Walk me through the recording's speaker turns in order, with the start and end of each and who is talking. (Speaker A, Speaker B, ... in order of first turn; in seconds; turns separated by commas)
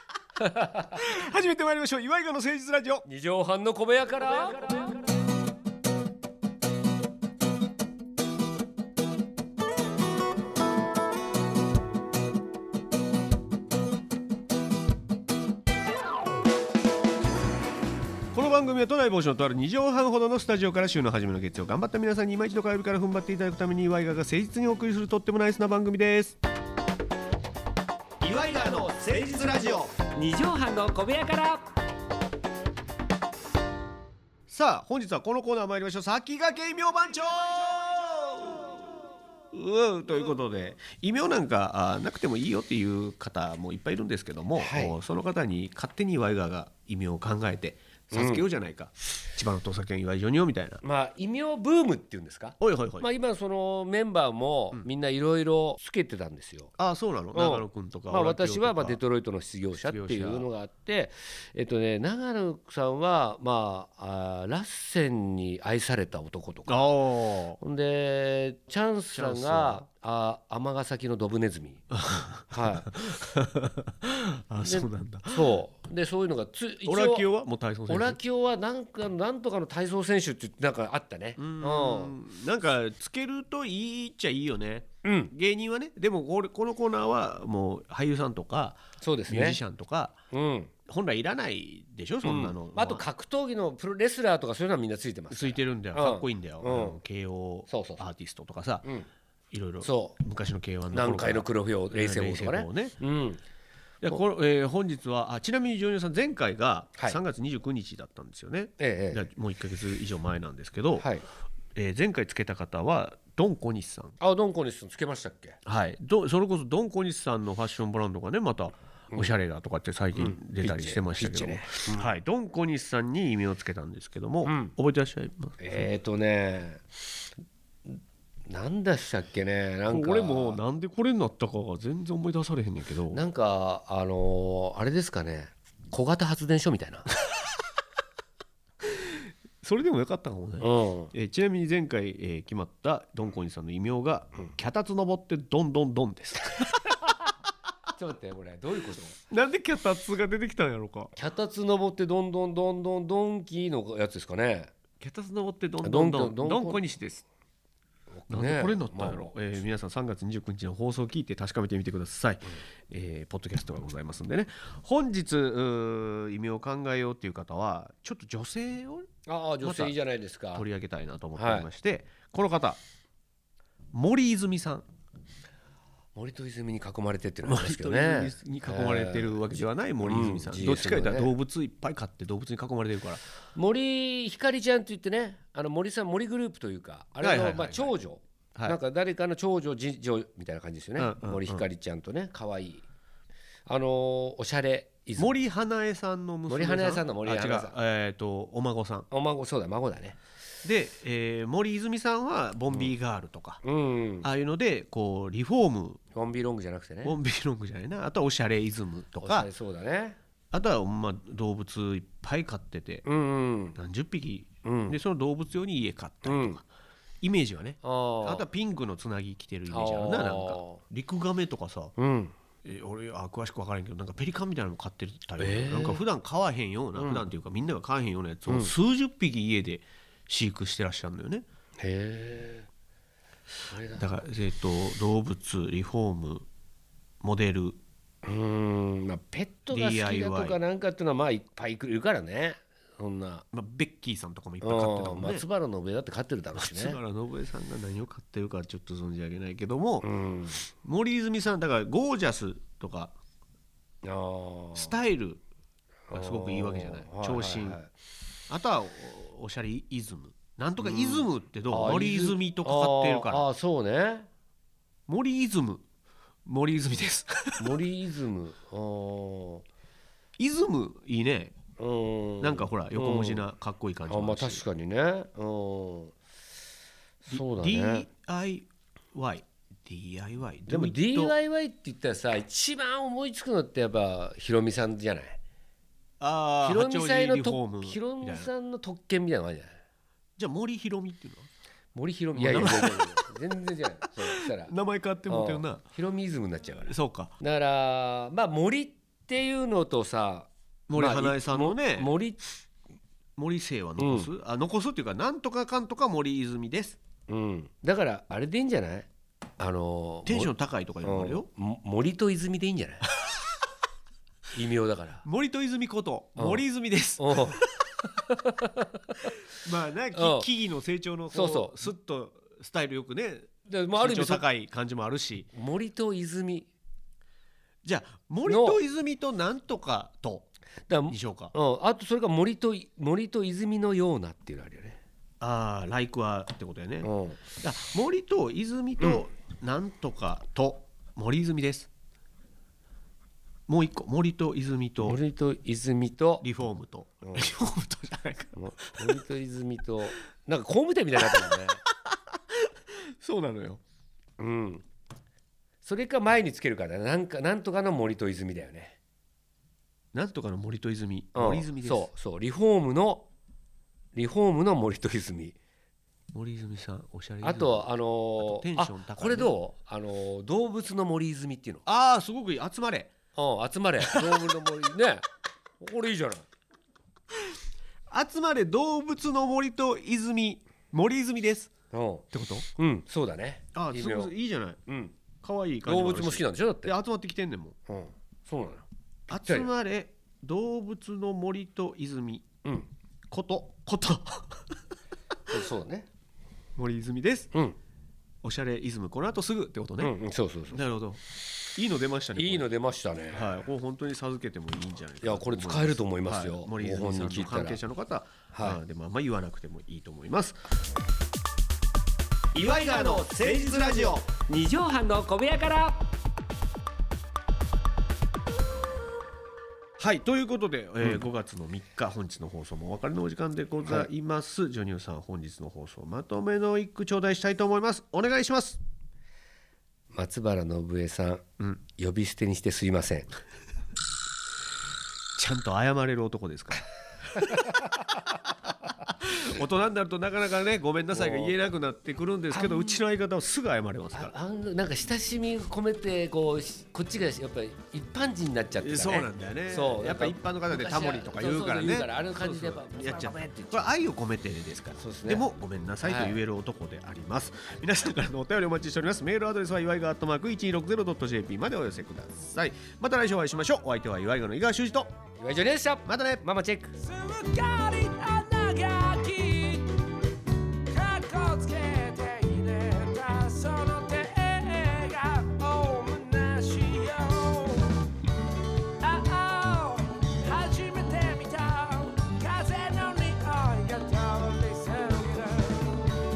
Speaker A: 0.4-1.0, Speaker B: 0.9-3.0, Speaker A: 3.0-5.0, Speaker B: 18.3-26.4, Speaker B: 28.2-29.9, Speaker A: 28.2-31.8, Speaker B: 34.5-38.6, Speaker B: 39.5-50.8, Speaker A: 44.6-45.0, Speaker A: 48.1-48.5, Speaker A: 50.8-56.7, Speaker B: 52.6-53.1, Speaker B: 56.8-59.0, Speaker A: 57.3-66.8, Speaker B: 59.8-60.5, Speaker B: 66.7-67.6, Speaker A: 67.6-71.9, Speaker B: 69.1-69.8, Speaker B: 71.9-75.6, Speaker A: 72.5-73.1, Speaker A: 74.6-77.3, Speaker B: 76.9-78.2, Speaker A: 77.9-82.1, Speaker B: 81.4-90.2, Speaker A: 85.0-85.3, Speaker A: 89.0-89.6, Speaker A: 90.3-90.7, Speaker B: 90.9-93.0, Speaker A: 92.2-97.0, Speaker B: 95.3-98.9, Speaker A: 97.7-98.0, Speaker B: 99.5-103.0, Speaker A: 99.8-100.2, Speaker A: 100.9-103.4, Speaker B: 104.0-111.1, Speaker A: 108.8-109.2, Speaker A: 111.0-111.2, Speaker B: 111.8-114.2, Speaker A: 114.2-115.6, Speaker B: 115.7-125.8, Speaker A: 120.2-122.1, Speaker A: 124.5-124.7, Speaker A: 125.6-126.8, Speaker A: 127.9-130.6, Speaker B: 129.9-133.2, Speaker A: 133.1-137.1, Speaker B: 138.8-146.9, Speaker A: 140.6-141.1, Speaker A: 147.9-149.2, Speaker B: 149.3-151.1, Speaker A: 151.2-154.7, Speaker B: 155.0-157.2, Speaker A: 155.8-156.8, Speaker A: 158.1-159.3, Speaker B: 158.3-169.1, Speaker A: 169.3-170.7, Speaker B: 169.6-169.9, Speaker B: 170.5-172.8, Speaker A: 171.4-171.7, Speaker B: 173.9-174.8, Speaker A: 176.2-181.3, Speaker B: 177.4-183.2, Speaker A: 183.6-192.8, Speaker B: 187.2-187.9, Speaker B: 191.0-191.6, Speaker A: 193.7-195.3, Speaker B: 195.2-199.1, Speaker A: 196.5-197.8, Speaker A: 199.1-200.2, Speaker B: 200.7-203.6, Speaker A: 203.6-204.3, Speaker B: 204.2-206.0, Speaker A: 206.1-207.2, Speaker B: 207.0-209.5, Speaker A: 209.2-210.2, Speaker B: 210.5-213.1, Speaker A: 213.1-213.8, Speaker B: 213.8-216.7, Speaker A: 214.6-214.9, Speaker A: 216.2-216.6, Speaker B: 217.2-221.9, Speaker A: 217.8-218.4, Speaker A: 219.7-220.8, Speaker A: 222.0-222.3, Speaker B: 222.6-231.5, Speaker A: 225.4-226.0, Speaker A: 227.0-227.3, Speaker A: 228.5-228.7, Speaker A: 231.8-232.7, Speaker A: 233.7-234.1, Speaker B: 233.9-236.5, Speaker B: 237.2-237.8, Speaker A: 238.2-243.4, Speaker B: 239.7-240.6, Speaker B: 243.5-245.4, Speaker A: 244.6-247.0, Speaker B: 246.6-250.1, Speaker A: 250.0-250.6, Speaker B: 250.8-253.2, Speaker A: 254.0-254.9, Speaker B: 254.8-255.4, Speaker A: 256.1-257.9, Speaker B: 256.1-257.8, Speaker B: 258.5-263.4, Speaker A: 260.8-264.3, Speaker B: 265.1-265.8, Speaker B: 266.5-267.8, Speaker A: 267.6-269.6, Speaker B: 270.4-271.6, Speaker A: 271.8-273.5, Speaker B: 272.4-274.6, Speaker A: 274.1-276.1, Speaker A: 277.2-278.1, Speaker B: 277.3-281.3, Speaker A: 280.7-285.4, Speaker B: 286.2-288.5, Speaker A: 286.6-289.8, Speaker B: 290.4-291.5, Speaker A: 291.9-294.7, Speaker B: 292.3-293.2, Speaker B: 294.2-295.8, Speaker A: 295.3-302.4, Speaker B: 296.8-297.3, Speaker B: 300.9-302.1, Speaker B: 303.4-307.0, Speaker A: 304.0-304.3, Speaker A: 307.3-309.1, Speaker A: 309.6-310.5, Speaker B: 310.3-311.5, Speaker A: 311.0-313.1, Speaker A: 314.5-315.2, Speaker B: 315.2-317.9, Speaker A: 316.4-316.6, Speaker A: 317.2-317.6, Speaker A: 318.1-319.3, Speaker B: 319.3-325.5, Speaker A: 320.1-320.5, Speaker A: 321.3-321.8, Speaker A: 323.7-324.4, Speaker A: 325.5-326.7, Speaker B: 327.8-330.5, Speaker A: 328.5-328.8, Speaker A: 330.9-335.0, Speaker B: 331.1-331.5, Speaker B: 335.4-337.1, Speaker A: 337.0-337.4, Speaker B: 337.6-341.9, Speaker B: 343.7-345.2, Speaker A: 345.0-346.4, Speaker B: 346.4-349.2, Speaker A: 347.2-347.5, Speaker A: 348.6-351.8, Speaker B: 351.2-351.6, Speaker B: 352.5-353.8, Speaker A: 354.4-354.9, Speaker A: 355.8-359.0, Speaker B: 360.1-362.1, Speaker A: 361.4-363.3, Speaker A: 364.1-365.6, Speaker B: 366.3-369.5, Speaker A: 367.4-371.8, Speaker B: 371.9-373.1, Speaker A: 373.4-375.2, Speaker B: 374.0-374.5, Speaker A: 375.8-376.4, Speaker B: 378.1-381.7, Speaker A: 381.9-384.3, Speaker B: 382.3-382.7, Speaker B: 383.8-384.8, Speaker A: 384.9-385.2, Speaker B: 385.4-387.8, Speaker A: 385.8-386.9, Speaker A: 387.9-389.7, Speaker B: 389.3-392.4, Speaker A: 392.6-392.9, Speaker B: 393.3-394.6, Speaker A: 395.5-396.1, Speaker B: 396.8-397.5, Speaker B: 398.4-400.1, Speaker A: 400.0-400.8, Speaker B: 400.7-401.2, Speaker B: 401.7-402.7, Speaker A: 402.4-403.5, Speaker B: 403.3-410.6, Speaker A: 405.2-407.8, Speaker A: 408.5-408.8, Speaker A: 412.6-416.1, Speaker B: 412.6-414.2, Speaker B: 420.0-428.8, Speaker A: 430.1-431.4, Speaker A: 431.9-433.3, Speaker B: 435.4-437.7, Speaker B: 439.2-444.3, Speaker A: 441.1-441.6, Speaker A: 444.1-453.9, Speaker B: 448.8-465.1, Speaker A: 455.0-455.5, Speaker A: 456.0-456.4, Speaker A: 465.4-470.1, Speaker B: 466.1-466.4, Speaker A: 470.9-478.1, Speaker A: 479.0-486.1